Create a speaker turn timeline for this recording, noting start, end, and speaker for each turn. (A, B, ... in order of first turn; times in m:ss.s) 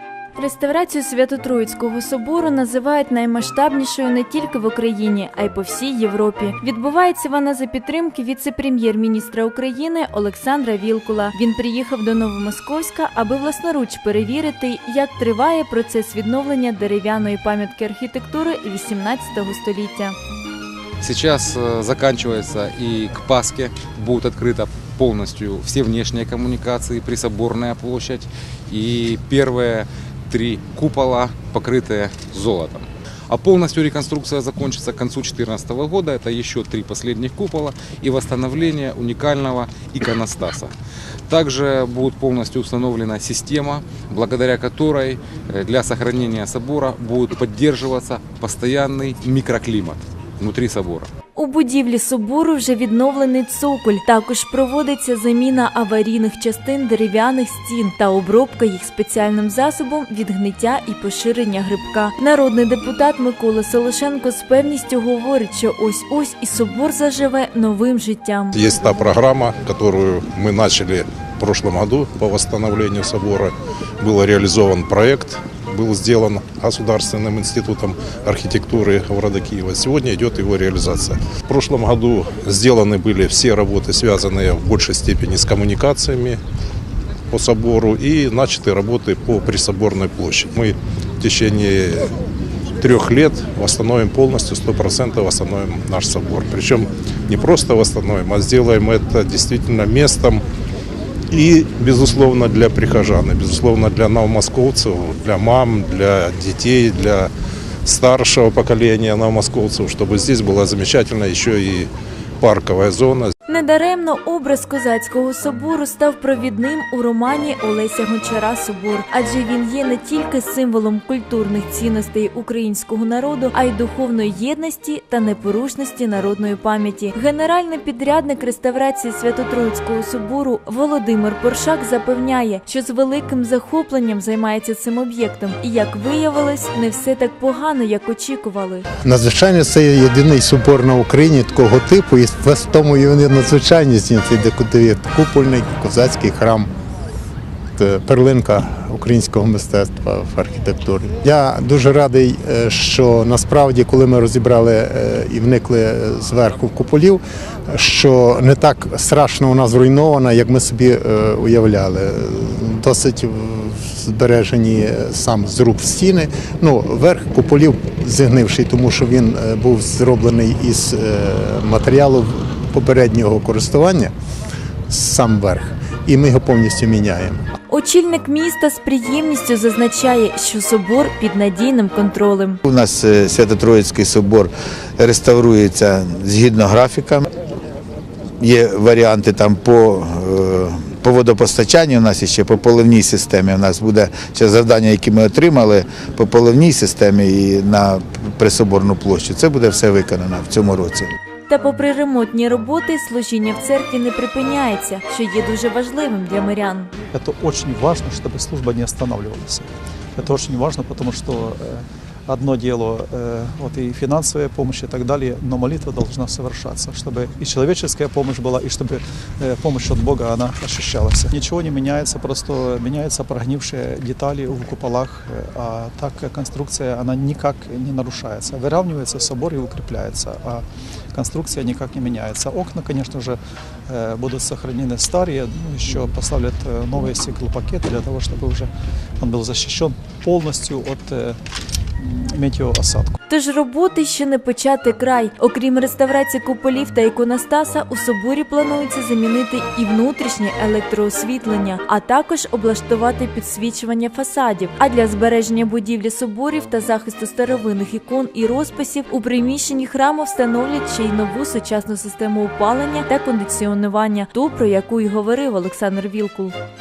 0:00.3-0:20.2 A
0:21.0-0:40.7 B
0:41.3-0:51.1 B
0:51.4-1:08.6 A
1:08.6-1:26.4 C
1:27.3-1:32.1 C
1:32.8-1:40.4 C
1:41.3-1:47.3 C
1:47.8-1:51.9 C
1:52.4-1:53.3 C
1:53.5-2:18.9 A
2:19.0-2:26.7 D
2:27.8-2:54.1 D
2:54.9-2:57.4 D
2:57.7-3:02.6 A
3:02.6-3:07.2 E
3:08.4-3:21.1 E
3:21.5-3:26.9 A
3:27.1-4:01.4 F
4:02.0-4:03.2 F
4:03.3-4:26.6 A